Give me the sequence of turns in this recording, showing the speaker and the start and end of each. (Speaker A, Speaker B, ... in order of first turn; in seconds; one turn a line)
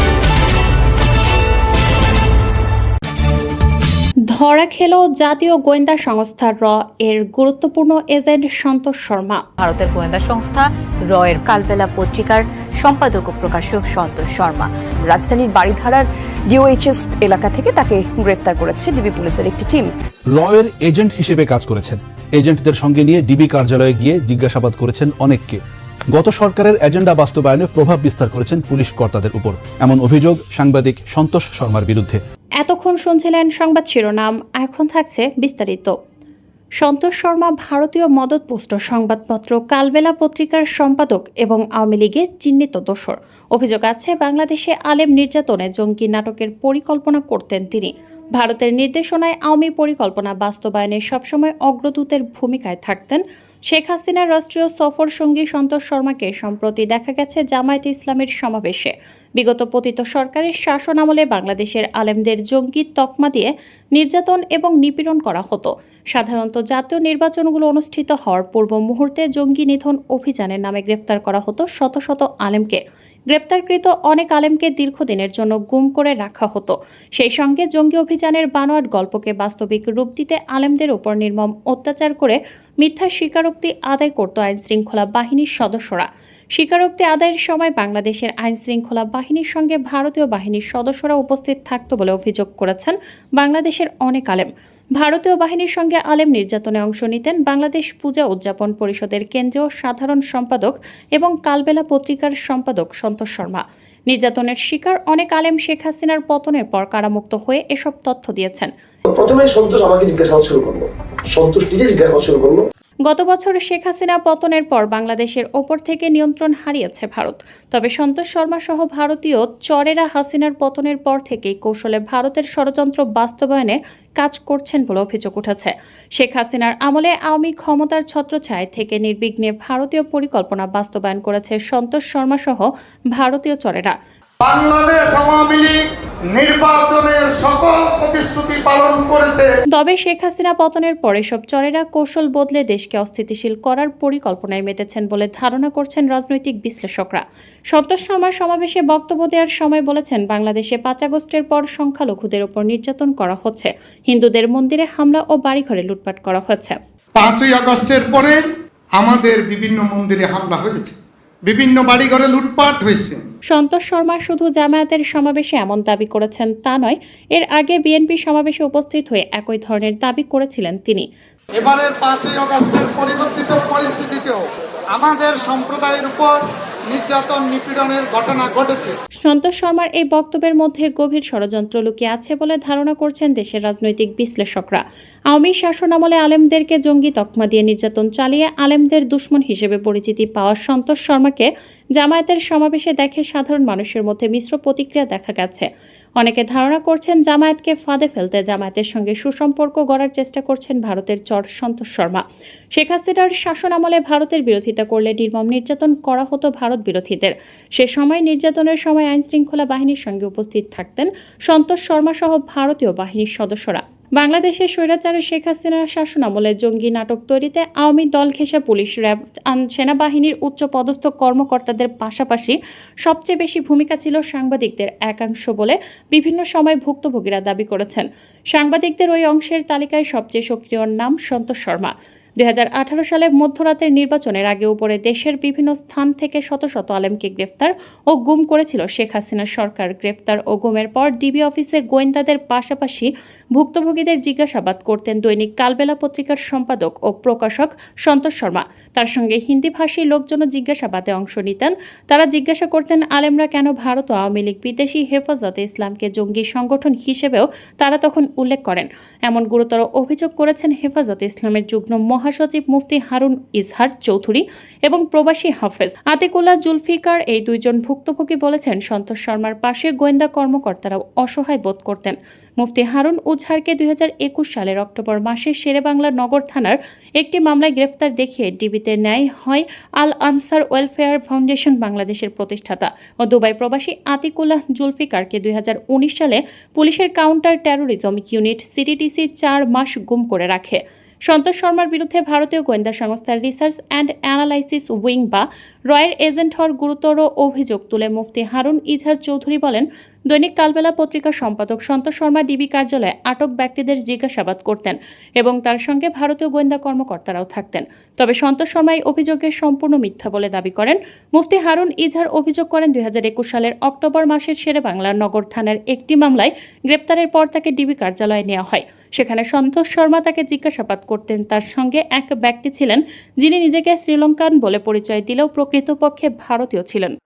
Speaker A: 4.3-9.4
Speaker B: 9.6-19.9
Speaker C: 20.3-25.6
Speaker C: 26.1-32.2
Speaker A: 32.6-35.9
Speaker A: 36.8-108.7
Speaker D: 109.1-112.6
Speaker A: 113.0-133.9
Speaker E: 134.4-135.8
Speaker E: 136.4-139.5
Speaker A: 139.7-156.8
Speaker E: 157.2-158.4
Speaker E: 159.0-160.9
Speaker E: 161.5-163.2
Speaker A: 163.5-171.1
Speaker E: 171.6-174.4
Speaker E: 174.9-176.3
Speaker E: 176.9-178.9
Speaker A: 179.2-184.8
Speaker A: 185.3-195.7
Speaker A: 196.2-202.2
Speaker A: 202.8-327.1